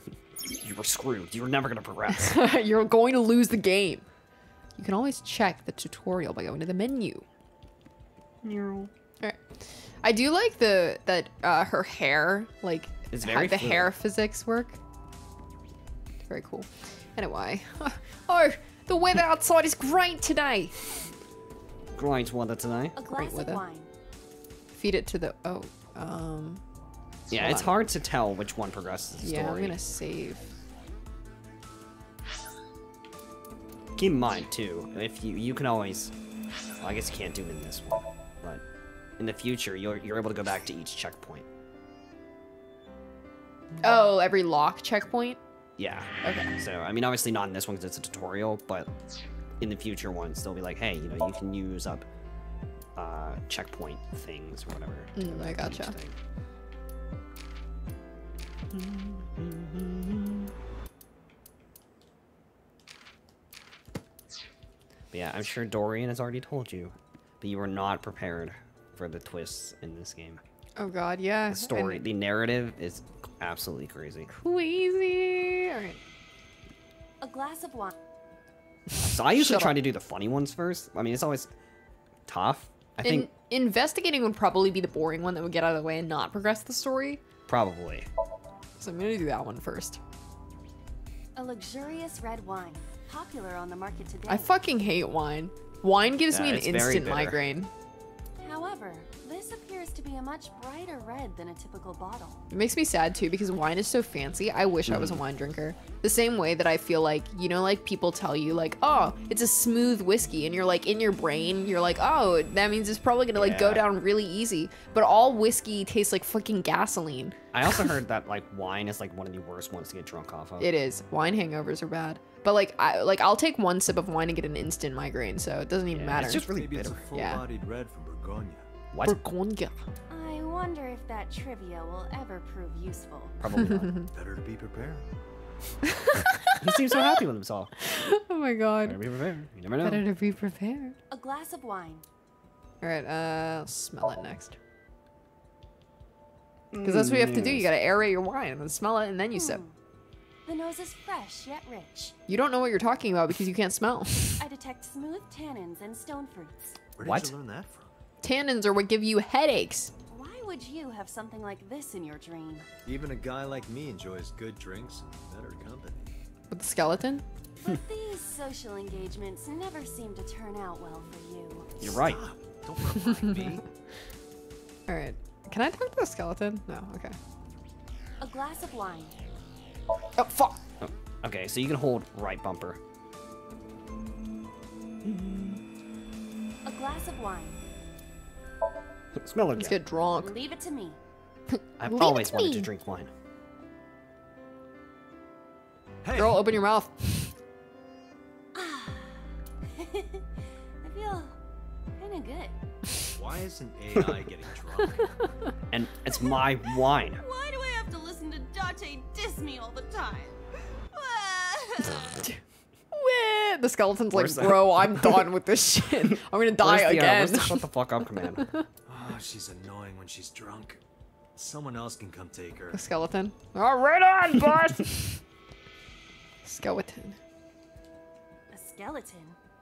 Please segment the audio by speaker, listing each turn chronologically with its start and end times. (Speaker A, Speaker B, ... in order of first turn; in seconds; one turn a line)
Speaker A: 0.6-2.4
Speaker B: 2.1-4.0
Speaker B: 4.8-7.3
Speaker A: 8.4-8.9
Speaker B: 9.2-14.8
Speaker A: 13.1-13.9
Speaker B: 16.3-20.9
Speaker A: 21.9-23.0
Speaker C: 23.0-23.9
Speaker B: 23.1-23.6
Speaker B: 24.7-26.6
Speaker A: 27.3-29.8
Speaker B: 27.4-27.7
Speaker B: 29.2-30.5
Speaker A: 34.0-36.1
Speaker A: 36.8-38.6
Speaker A: 39.2-41.5
Speaker B: 43.8-45.4
Speaker A: 45.8-48.9
Speaker B: 46.2-46.5
Speaker A: 49.6-52.1
Speaker A: 53.0-56.2
Speaker B: 55.2-56.0
Speaker A: 58.7-60.5
Speaker A: 65.1-70.4
Speaker B: 70.8-72.0
Speaker A: 71.5-74.3
Speaker B: 74.3-76.0
Speaker C: 77.2-77.9
Speaker B: 79.0-79.8
Speaker A: 79.0-81.5
Speaker A: 82.3-83.3
Speaker B: 83.0-87.2
Speaker A: 87.5-88.1
Speaker B: 88.8-90.0
Speaker C: 91.4-94.5
Speaker B: 94.3-97.7
Speaker A: 96.3-97.4
Speaker C: 98.4-102.4
Speaker B: 102.5-117.9
Speaker A: 104.9-105.2
Speaker A: 113.3-113.9
Speaker A: 117.5-120.7
Speaker B: 120.6-126.5
Speaker A: 125.9-127.1
Speaker D: 126.2-128.7
Speaker B: 127.1-127.4
Speaker A: 128.9-129.2
Speaker B: 129.0-129.8
Speaker C: 130.1-133.4
Speaker A: 133.4-133.9
Speaker B: 133.6-134.1
Speaker D: 134.1-135.1
Speaker B: 135.9-137.0
Speaker A: 136.6-137.7
Speaker B: 137.8-139.0
Speaker A: 138.8-140.0
Speaker B: 139.8-141.0
Speaker C: 141.1-142.1
Speaker B: 142.8-144.6
Speaker A: 146.7-147.7
Speaker B: 146.8-149.6
Speaker C: 149.3-149.8
Speaker C: 150.5-152.2
Speaker B: 152.3-154.4
Speaker C: 154.4-156.8
Speaker D: 157.0-157.9
Speaker A: 157.0-157.3
Speaker B: 158.2-159.9
Speaker C: 160.1-162.7
Speaker D: 162.8-166.2
Speaker B: 166.5-167.2
Speaker C: 167.6-171.7
Speaker D: 171.8-173.7
Speaker A: 171.8-172.2
Speaker B: 174.9-177.2
Speaker C: 178.2-179.2
Speaker B: 180.2-180.6
Speaker A: 180.8-182.8
Speaker A: 185.0-185.6
Speaker C: 186.7-187.6
Speaker A: 189.2-189.8
Speaker B: 189.6-190.3
Speaker C: 190.2-191.0
Speaker B: 191.5-192.7
Speaker A: 191.8-193.1
Speaker D: 196.0-196.4
Speaker B: 196.1-197.3
Speaker C: 198.5-200.3
Speaker C: 200.8-201.4
Speaker C: 202.0-202.5
Speaker D: 203.2-205.2
Speaker A: 205.7-207.2
Speaker C: 207.2-210.4
Speaker C: 210.9-212.3
Speaker B: 212.9-217.7
Speaker A: 214.1-215.3
Speaker A: 216.1-218.5
Speaker B: 218.3-218.7
Speaker D: 218.9-220.8
Speaker D: 221.3-222.8
Speaker B: 222.7-225.2
Speaker B: 226.4-227.2
Speaker C: 228.5-229.4